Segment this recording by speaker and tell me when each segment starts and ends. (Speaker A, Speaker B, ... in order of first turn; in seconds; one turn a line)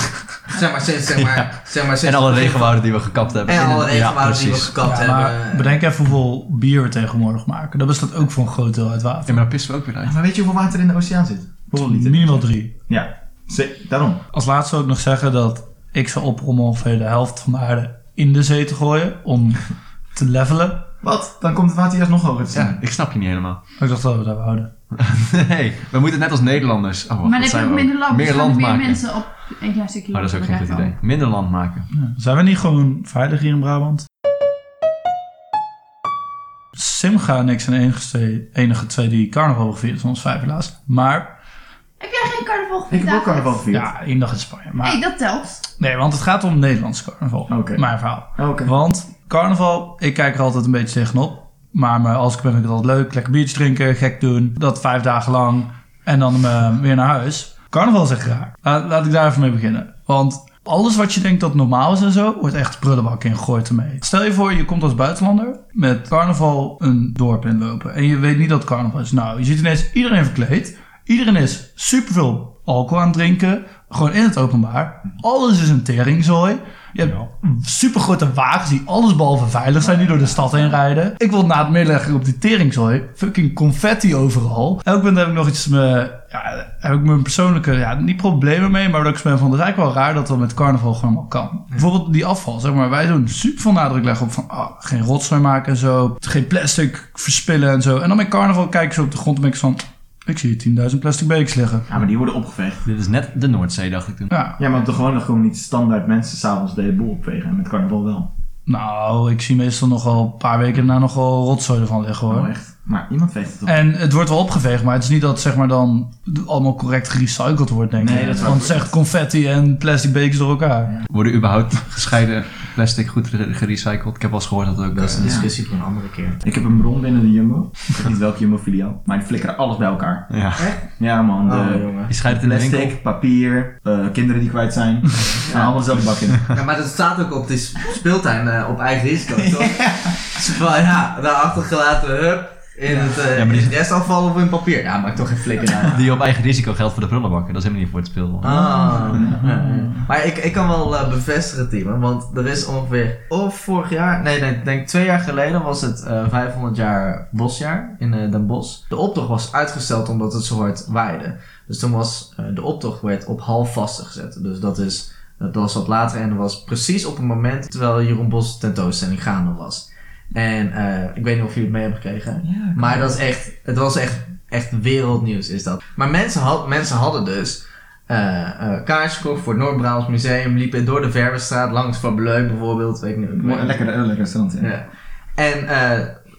Speaker A: 0.5-2.8
Speaker B: 1.1-4.8
Speaker A: 3.5-5.8
Speaker C: 4.8-9.4
Speaker B: 9.3-10.2
Speaker D: 10.0-14.2
Speaker C: 11.8-12.7
Speaker C: 14.3-20.9
Speaker D: 21.0-22.8
Speaker B: 22.5-23.6
Speaker C: 23.8-24.7
Speaker B: 24.9-29.3
Speaker E: 27.2-31.0
Speaker B: 30.1-31.9
Speaker C: 31.9-34.0
Speaker C: 36.8-41.3
Speaker E: 42.0-43.6
Speaker D: 42.9-43.9
Speaker C: 43.7-45.0
Speaker E: 44.8-45.6
Speaker C: 45.7-101.9
Speaker D: 47.5-48.7
Speaker D: 79.8-80.8
Speaker D: 101.9-102.8
Speaker B: 102.8-104.3
Speaker C: 104.3-104.6
Speaker D: 104.6-108.3
Speaker C: 108.7-112.5
Speaker D: 112.3-113.8
Speaker C: 113.7-120.9
Speaker D: 118.0-119.0
Speaker B: 121.1-125.4
Speaker A: 124.9-126.4
Speaker D: 125.2-125.5
Speaker D: 126.4-136.4
Speaker B: 130.3-130.7
Speaker A: 130.6-130.8
Speaker A: 131.4-132.1
Speaker B: 132.1-133.0
Speaker A: 135.4-135.8
Speaker A: 136.4-146.1
Speaker D: 139.3-140.4
Speaker B: 143.3-143.8
Speaker B: 145.8-148.8
Speaker A: 148.4-183.9
Speaker D: 148.5-149.5
Speaker C: 148.8-150.1
Speaker D: 172.4-173.2
Speaker D: 183.3-184.7
Speaker A: 184.6-186.2